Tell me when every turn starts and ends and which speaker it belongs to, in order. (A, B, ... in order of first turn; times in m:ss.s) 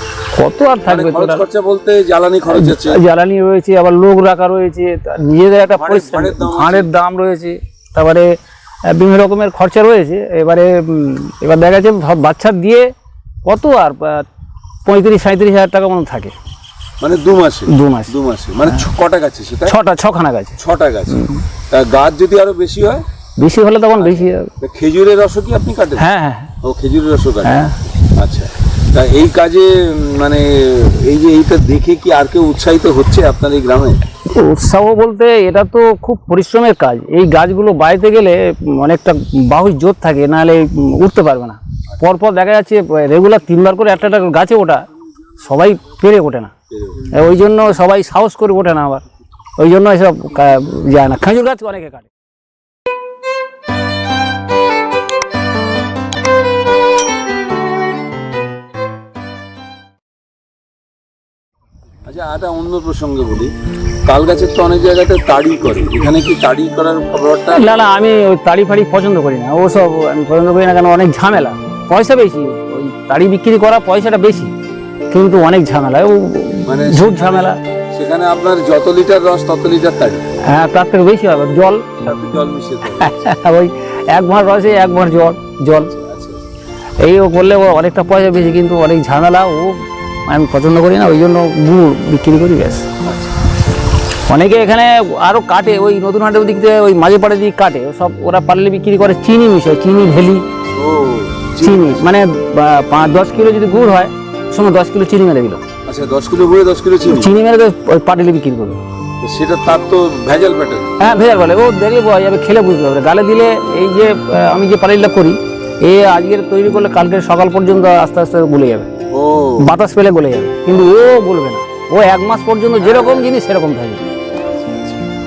0:00.3-0:01.4 A
0:00.8-0:03.0 B
0:02.5-0:08.4 A
0:05.7-0:06.9 B
0:08.9-0:12.9 A
0:13.4-0:14.2 A
0:14.8-0:16.3 A
0:17.0-0:19.8 B
0:17.7-0:18.1 A
0:19.6-0:20.5 A
0:20.6-0:23.0 B
0:21.1-0:21.4 A
0:23.4-0:24.5 A
0:24.0-0:26.1 B
0:26.0-0:26.5 A
0:26.6-0:34.0 B
0:27.4-0:27.8 A
0:34.3-0:44.8 A
0:45.4-0:49.0 A
0:46.7-0:47.1 B
0:49.6-0:52.1 A
1:02.0-1:03.5 B
1:04.0-1:07.8 B
1:07.5-1:14.5 A
1:15.1-1:17.6 A
1:16.6-1:20.2 B
1:20.4-1:22.0 A
1:22.0-1:23.1 B
1:23.0-1:25.9 A
1:25.9-1:26.4 B
1:27.0-1:32.9 A
1:33.0-1:33.4 B
1:34.3-1:40.4 A
1:40.7-1:42.1 B
1:41.6-1:45.6 A
1:45.8-1:47.3 B
1:47.1-1:48.8 A
1:49.2-1:51.1 B
1:51.0-1:58.9 A
1:59.1-1:59.7 B
1:59.6-2:04.0 A
2:02.8-2:03.3 B
2:04.3-2:05.0 B